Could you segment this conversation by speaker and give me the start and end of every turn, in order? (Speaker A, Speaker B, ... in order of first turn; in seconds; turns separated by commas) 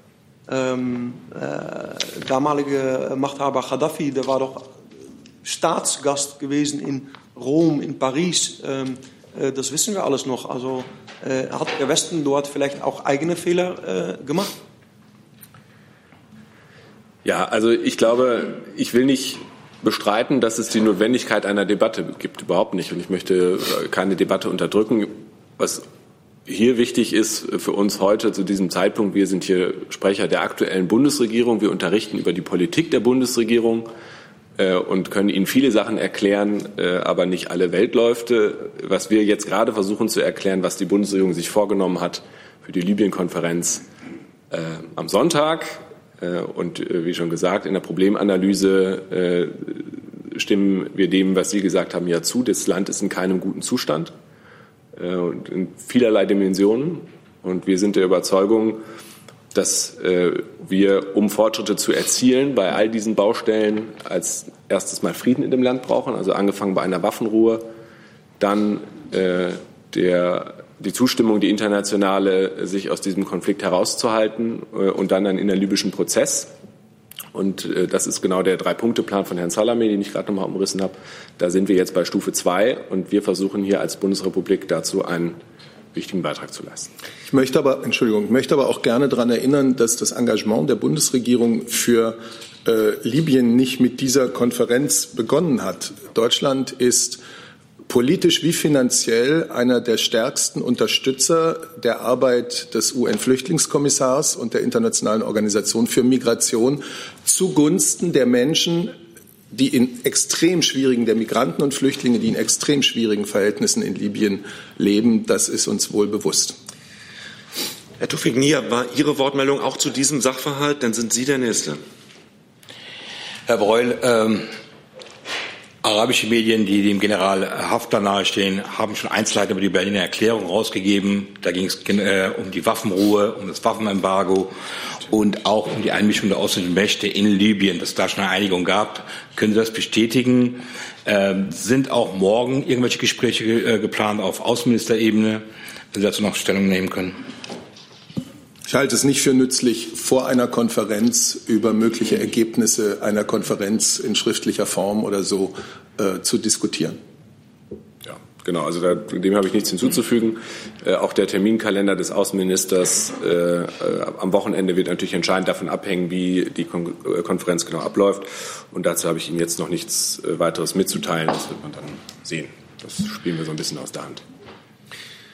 Speaker A: 0.5-4.7, Speaker A: 5.4-14.6, Speaker B: 17.2-25.8, Speaker B: 26.5-33.9, Speaker B: 34.6-43.8, Speaker B: 44.5-54.1, Speaker B: 55.0-58.8, Speaker B: 59.5-67.7, Speaker B: 68.4-76.5, Speaker B: 77.3-85.4, Speaker B: 85.9-86.9, Speaker C: 87.3-97.2, Speaker C: 97.9-109.0, Speaker C: 109.5-116.6, Speaker D: 118.0-121.8, Speaker E: 123.5-124.5, Speaker E: 125.8-147.2, Speaker C: 148.7-157.0, Speaker B: 158.1-174.2